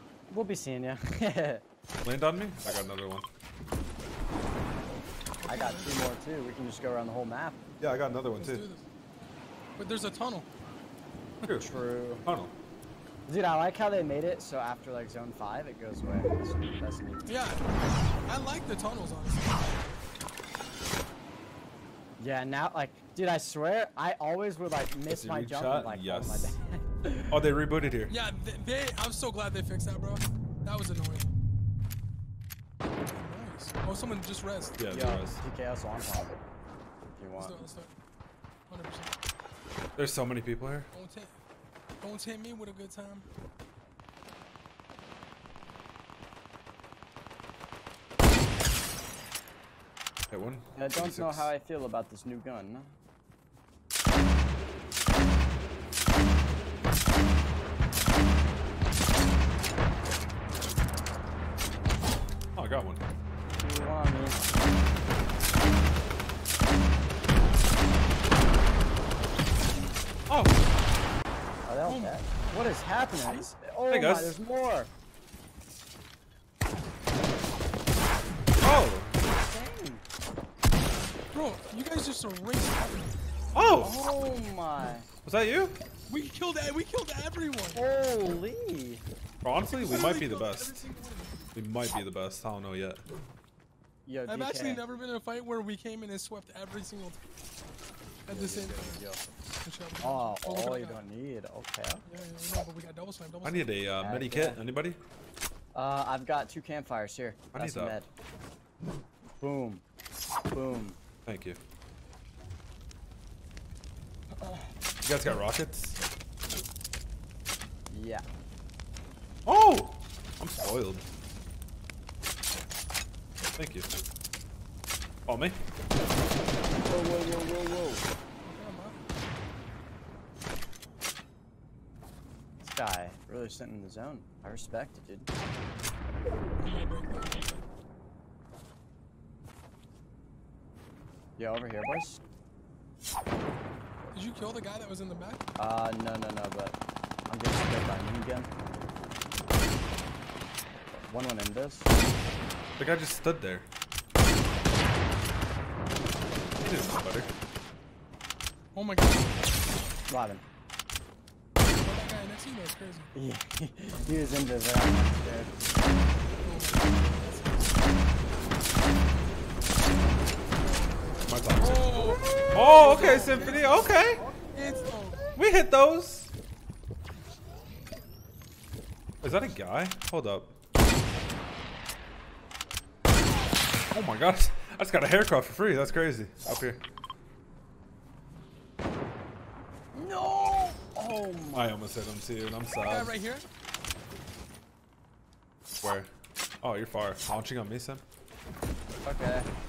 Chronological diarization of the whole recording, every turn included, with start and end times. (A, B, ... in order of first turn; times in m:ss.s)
0:00.3-0:01.6 A
0:02.0-0:03.3 B
0:05.4-0:05.9 C
0:05.5-0:07.6 A
0:07.8-0:08.7 B
0:08.4-0:08.8 C
0:09.8-0:10.5 C
0:11.4-0:11.7 B
0:11.6-0:12.2 A
0:12.2-0:12.6 B
0:13.3-0:17.3 A
0:17.3-0:17.7 C
0:18.2-0:19.8 C
0:22.2-0:27.3 A
0:25.1-0:26.6 B
0:27.3-0:28.1 B
0:28.1-0:31.3 C
0:33.1-0:34.8 C
0:34.8-0:35.4 B
0:34.9-0:36.4 A
0:37.2-0:37.6 A
0:37.4-0:37.9 C
0:38.7-0:39.1 C
0:40.0-0:40.9 B
0:40.9-0:41.3 C
0:42.0-0:43.2 C
0:50.3-0:51.5 B
0:50.8-0:52.9 A
1:02.6-1:03.0 B
1:03.6-1:04.7 A
1:10.3-1:10.6 B
1:11.7-1:14.9 A
1:11.8-1:12.5 C
1:13.9-1:14.4 B
1:18.6-1:19.2 B
1:19.3-1:20.0 A
1:21.3-1:23.1 C
1:23.5-1:24.0 B
1:23.8-1:25.1 A
1:25.2-1:25.8 B
1:26.1-1:27.8 C
1:27.7-1:29.0 A
1:29.4-1:30.8 B
1:29.7-1:31.4 C
1:31.6-1:33.0 B
1:34.1-1:34.9 A
1:34.3-1:37.2 C
1:38.3-1:39.0 C
1:38.3-1:39.3 A
1:39.6-1:41.0 C
1:40.0-1:42.1 A
1:42.1-1:43.7 C
1:43.4-1:45.0 B
1:44.0-1:44.6 A
1:45.7-1:48.1 A
1:47.5-1:48.0 B
1:49.4-1:49.8 A
1:50.5-1:51.0 A
1:51.3-1:51.6 B
1:54.4-1:54.7 A
1:55.0-1:56.0 B
1:57.9-1:58.2 A
1:59.5-2:01.0 B
2:03.6-2:03.9 B
2:05.3-2:05.6 B
2:06.8-2:08.0 A
2:08.4-2:09.0 C
2:12.6-2:15.3 A
2:16.6-2:17.6 C
2:21.4-2:22.2 A
2:24.1-2:25.4 C
2:25.6-2:26.8 A
2:27.3-2:28.5 A
2:30.9-2:31.9 A
2:32.8-2:33.7 B
2:36.6-2:37.3 B
2:38.7-2:39.6 C
2:40.1-2:40.4 A
2:41.8-2:43.1 C
2:43.1-2:45.6 A
2:46.4-2:48.1 C
2:49.9-2:50.4 A
2:50.5-2:54.0 C
2:51.3-2:52.0 B
2:52.0-2:55.4 A
2:52.5-2:54.2 B
2:54.5-2:55.3 C
2:55.4-2:56.3 B
2:59.2-3:00.5 B
3:03.9-3:06.8 B
3:09.9-3:11.7 A
3:11.5-3:13.1 B
3:12.8-3:13.4 C
3:15.8-3:16.1 B
3:16.6-3:18.0 B
3:19.0-3:19.5 A